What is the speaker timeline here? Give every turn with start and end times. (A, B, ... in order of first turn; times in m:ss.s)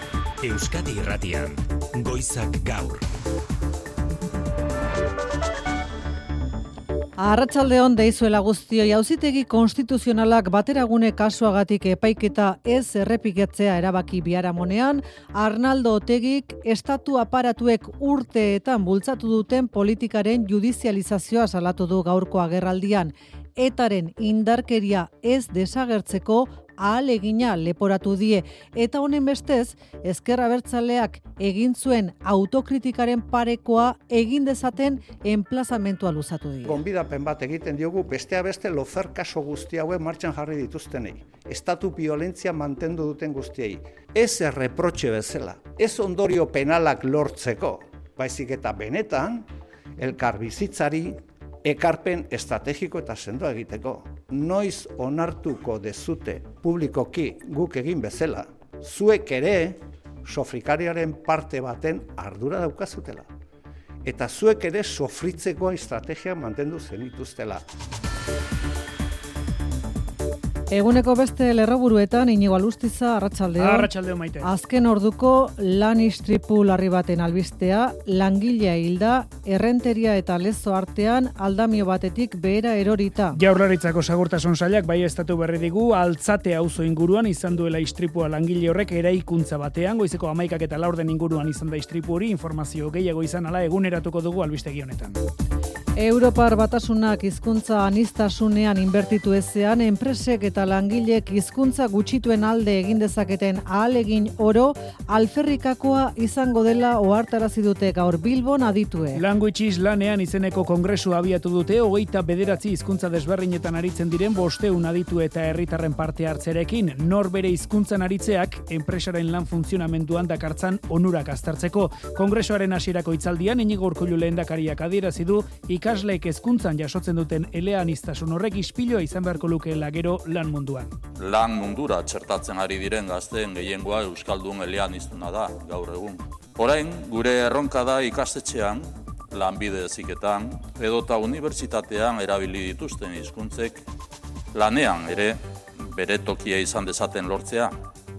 0:00.4-0:03.0 A
0:07.2-0:36.8 B
0:36.6-1:03.3 C
1:04.0-1:07.6 C
1:10.7-1:13.9 B
1:13.6-1:14.5 D
1:14.4-1:23.4 B
1:23.3-1:35.2 D
1:36.0-1:49.2 B
1:49.2-2:10.9 D
2:11.2-2:23.8 E
2:24.6-2:27.7 E